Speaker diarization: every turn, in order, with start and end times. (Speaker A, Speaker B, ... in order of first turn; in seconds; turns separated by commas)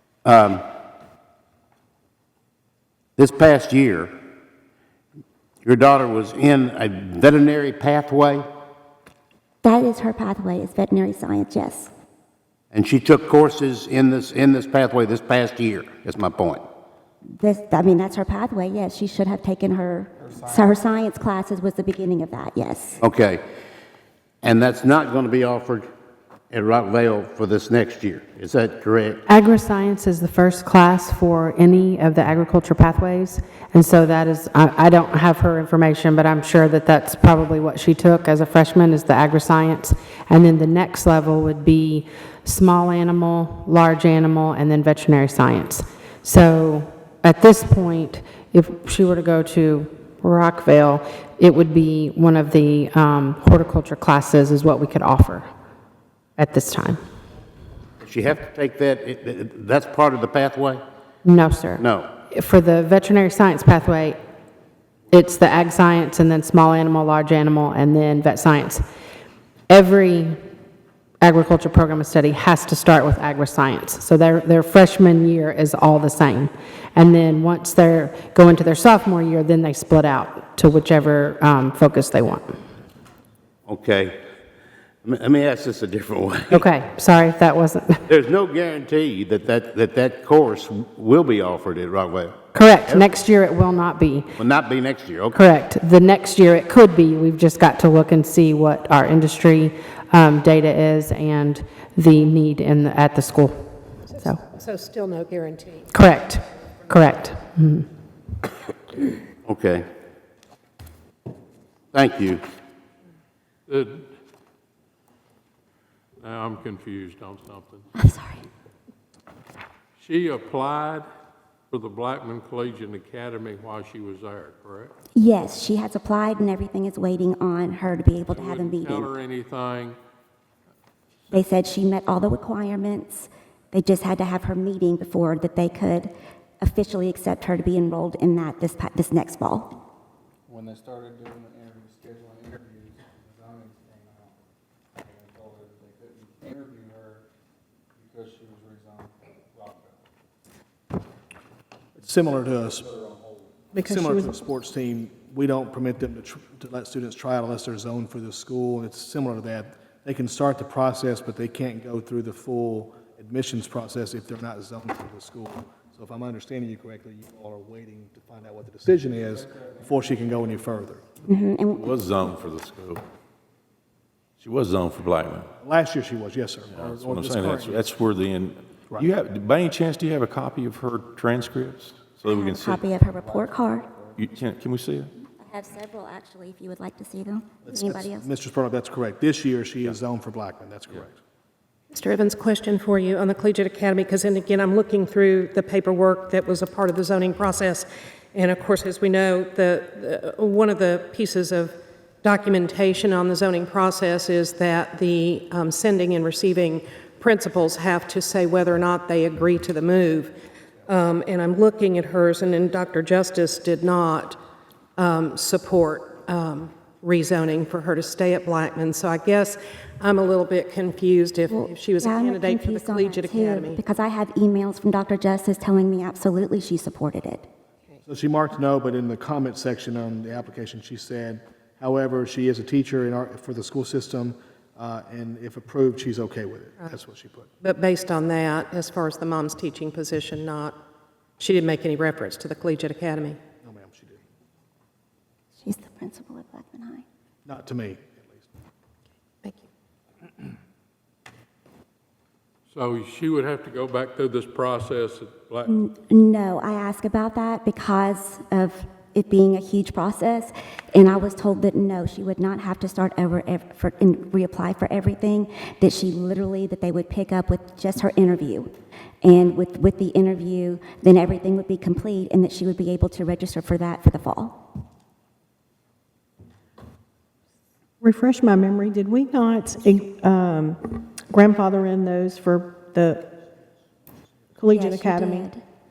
Speaker A: 0.2-0.6, Speaker A: 3.2-4.1, Speaker A: 5.7-8.5, Speaker B: 9.6-11.9, Speaker A: 12.7-16.6, Speaker B: 17.4-23.0, Speaker A: 23.0-23.4, Speaker A: 24.4-25.9, Speaker A: 26.5-29.2, Speaker C: 29.3-55.5, Speaker C: 56.4-57.0, Speaker A: 58.0-60.8, Speaker C: 61.2-64.2, Speaker A: 61.8-62.1, Speaker C: 65.1-68.8, Speaker C: 69.7-70.4, Speaker C: 71.2-82.6, Speaker A: 83.7-84.2, Speaker A: 85.0-86.7, Speaker C: 86.5-88.0, Speaker A: 88.1-93.1, Speaker C: 92.5-94.3, Speaker A: 94.4-95.4, Speaker C: 95.3-104.4, Speaker D: 104.1-106.2, Speaker C: 105.9-107.9, Speaker A: 109.5-109.8, Speaker A: 111.9-112.4, Speaker E: 113.7-114.0, Speaker E: 116.2-117.8, Speaker B: 118.0-118.4, Speaker E: 120.0-121.1, Speaker E: 121.7-124.9, Speaker B: 125.2-129.1, Speaker E: 128.3-130.0, Speaker B: 131.3-139.8, Speaker F: 140.5-144.4, Speaker F: 145.0-147.2, Speaker F: 148.0-150.0, Speaker G: 152.0-152.9, Speaker F: 152.8-153.5, Speaker H: 153.7-154.4, Speaker G: 153.8-171.0, Speaker F: 169.1-170.6, Speaker B: 171.3-171.9, Speaker I: 171.7-173.0, Speaker I: 174.4-175.5, Speaker G: 175.6-177.9, Speaker I: 176.7-182.9, Speaker B: 182.3-183.9, Speaker F: 183.3-184.5, Speaker I: 184.2-185.1, Speaker B: 185.4-188.3, Speaker G: 187.7-191.2, Speaker D: 191.9-210.3, Speaker D: 210.9-214.4, Speaker D: 215.0-223.8, Speaker B: 221.5-227.5, Speaker G: 228.1-237.5, Speaker D: 237.6-240.8, Speaker D: 241.4-243.4, Speaker G: 243.6-244.2, Speaker B: 245.6-247.0, Speaker G: 247.4-248.5, Speaker E: 252.7-255.7, Speaker B: 255.7-268.7, Speaker B: 269.2-274.6, Speaker H: 278.0-283.2, Speaker H: 284.6-285.5, Speaker B: 284.7-285.6